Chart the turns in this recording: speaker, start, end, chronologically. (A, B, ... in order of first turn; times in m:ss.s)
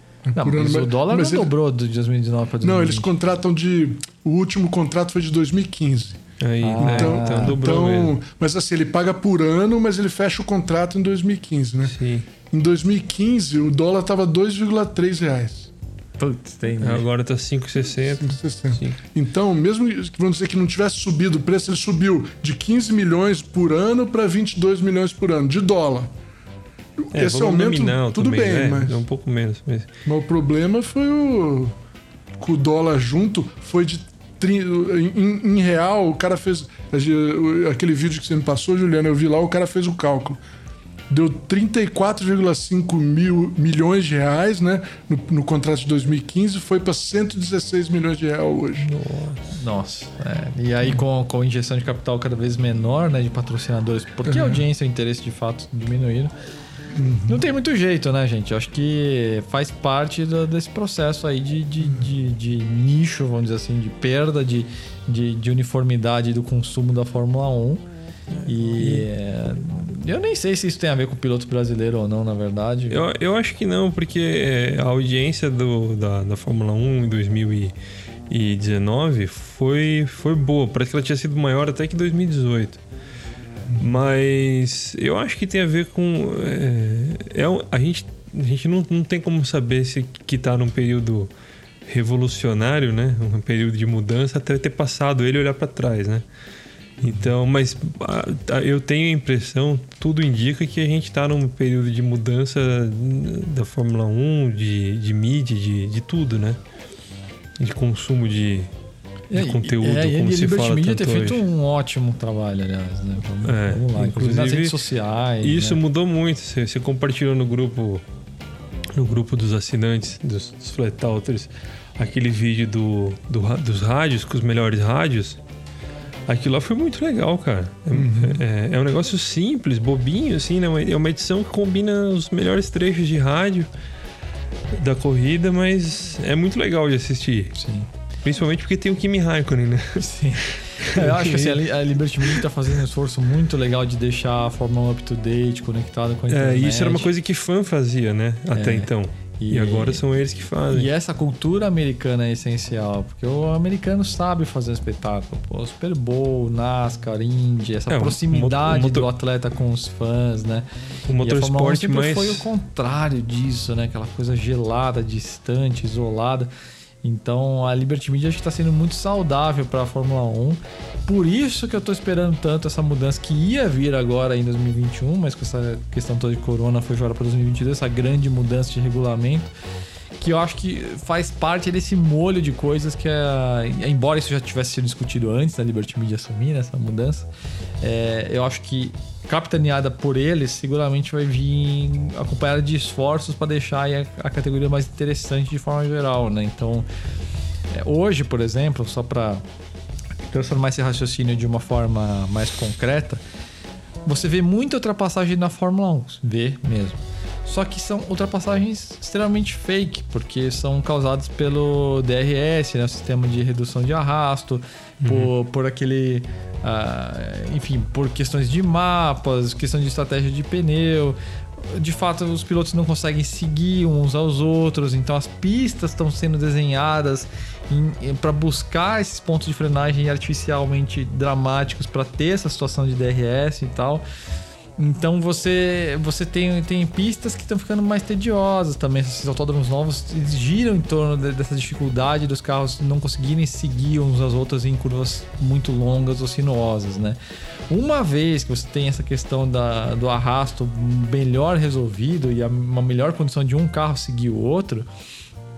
0:00.2-0:01.5 A
0:00.4-0:03.1 B
0:02.6-0:06.2 A
0:06.4-0:08.2 C
0:06.6-0:07.6 B
0:06.8-0:15.7 A
0:11.9-0:12.2 C
0:16.2-0:17.0 B
0:16.8-0:19.0 C
0:17.8-0:26.1 A
0:27.0-0:29.0 A
0:27.1-0:29.9 C
0:30.0-0:31.8 A
0:32.4-0:40.4 A
0:41.1-0:48.9 A
0:48.8-0:49.4 C
0:49.5-0:56.3 B
0:54.3-0:54.6 A
0:56.9-0:57.4 A
0:57.3-1:07.8 B
1:08.3-1:09.1 C
1:08.4-1:13.0 B
1:12.9-1:17.7 C
1:18.3-1:22.8 C
1:23.8-1:31.3 C
1:31.9-1:36.2 C
1:37.0-1:37.3 A
1:37.0-1:46.6 C
1:47.6-1:48.7 C
1:49.3-1:55.8 B
1:49.3-1:51.4 C
1:53.4-1:54.8 C
1:55.4-1:58.0 C
1:58.9-2:05.4 C
2:06.3-2:13.7 C
2:07.9-2:08.4 A
2:14.7-2:17.5 C
2:17.6-2:17.9 B
2:18.2-2:21.6 C
2:20.0-2:27.1 B
2:26.3-2:30.9 C
2:28.5-2:30.0 B
2:30.7-2:40.7 B
2:37.9-2:39.1 C
2:41.1-2:42.5 C
2:41.2-2:46.5 B
2:47.0-2:59.5 B
3:00.2-3:07.3 B
3:07.8-3:16.9 B
3:17.7-3:19.4 B
3:20.3-3:23.2 B
3:24.0-3:54.0 B
3:35.0-3:35.3 C
3:54.8-4:14.9 B